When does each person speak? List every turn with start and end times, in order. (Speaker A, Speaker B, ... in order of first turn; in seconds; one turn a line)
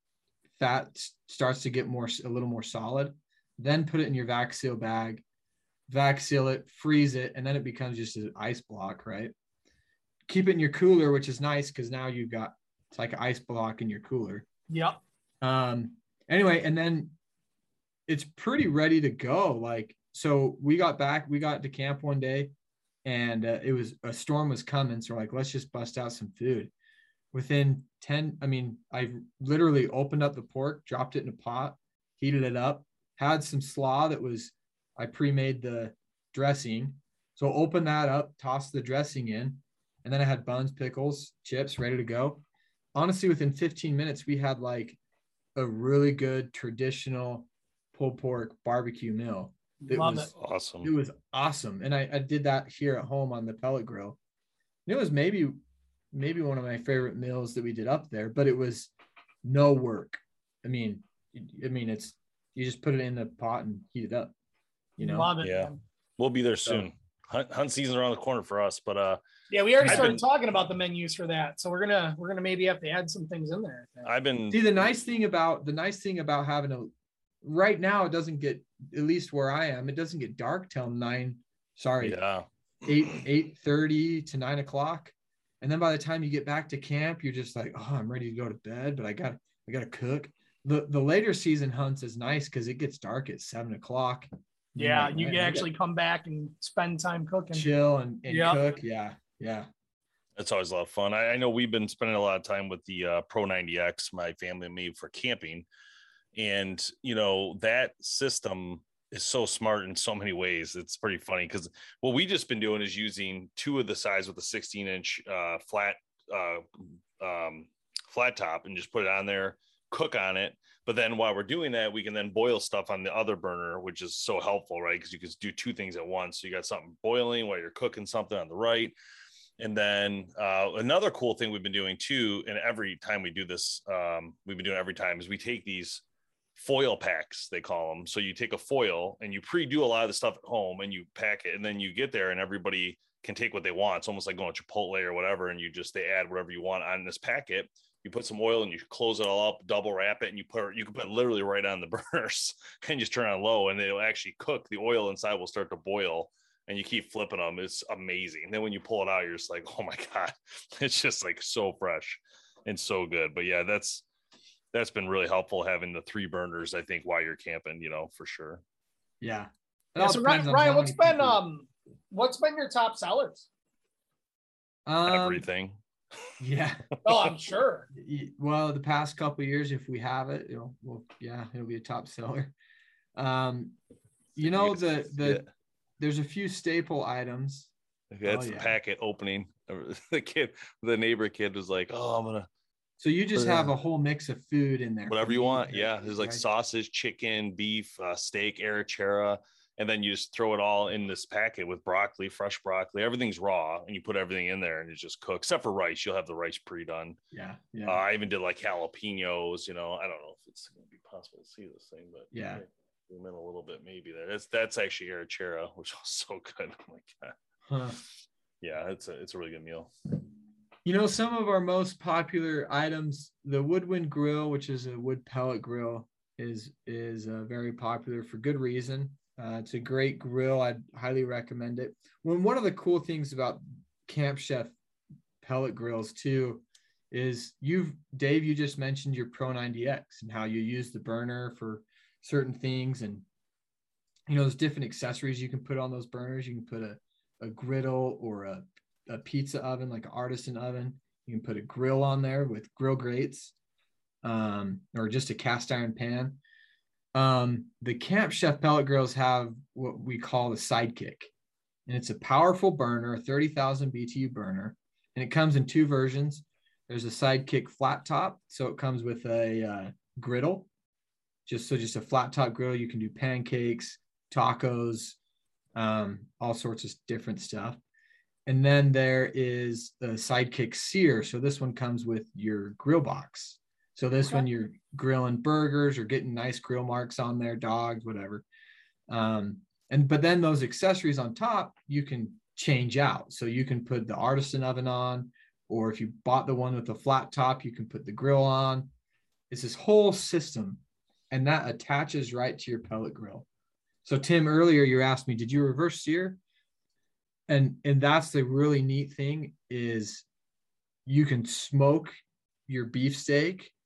Speaker A: 0.6-5.2
Speaker A: 5.9-9.3
Speaker A: 10.3-14.4
Speaker B: 14.7-15.0
Speaker A: 15.4-17.1
Speaker A: 18.1-22.5
Speaker A: 23.0-26.7
Speaker A: 27.3-42.4
Speaker A: 42.9-45.0
Speaker A: 45.5-50.3
Speaker B: 49.8-50.3
Speaker C: 50.3-50.9
Speaker A: 50.8-54.2
Speaker A: 54.9-55.6
Speaker A: 56.1-58.9
Speaker A: 59.4-64.3
Speaker A: 65.0-65.3
Speaker B: 65.0-65.8
Speaker C: 65.4-69.2
Speaker B: 69.5-74.1
Speaker C: 69.8-70.2
Speaker A: 69.8-70.2
Speaker C: 74.0-74.7
Speaker A: 74.5-76.9
Speaker A: 77.4-82.2
Speaker C: 82.0-83.2
Speaker A: 82.8-95.7
Speaker B: 94.8-97.7
Speaker A: 97.5-99.7
Speaker B: 98.3-98.6
Speaker C: 100.4-105.7
Speaker C: 106.3-116.7
Speaker C: 117.2-128.9
Speaker C: 129.6-136.0
Speaker C: 136.6-164.0
Speaker C: 164.7-168.6
Speaker A: 169.2-171.4
Speaker B: 170.0-173.5
Speaker A: 174.8-175.4
Speaker C: 175.1-175.8
Speaker A: 176.4-176.9
Speaker B: 177.0-177.9
Speaker A: 177.9-182.5
Speaker A: 183.2-183.8
Speaker A: 184.3-185.4
Speaker C: 184.5-185.5
Speaker A: 186.0-187.7
Speaker C: 188.1-192.5
Speaker A: 188.2-188.7
Speaker A: 193.0-196.4
Speaker C: 193.3-193.7
Speaker C: 195.1-207.2
Speaker A: 207.3-208.0
Speaker C: 207.8-217.3
Speaker A: 212.3-212.6
Speaker A: 217.7-218.0
Speaker C: 218.6-219.9
Speaker A: 220.8-234.8
Speaker A: 235.4-243.2
Speaker A: 244.3-253.5
Speaker A: 254.2-256.4
Speaker A: 257.1-261.3
Speaker A: 261.9-270.7
Speaker A: 271.4-275.2
Speaker A: 275.8-277.8
Speaker A: 278.4-288.4
Speaker A: 289.1-298.9
Speaker A: 299.5-303.4
Speaker A: 304.0-306.4
Speaker A: 307.5-310.2
Speaker A: 311.1-312.1
Speaker A: 312.7-313.7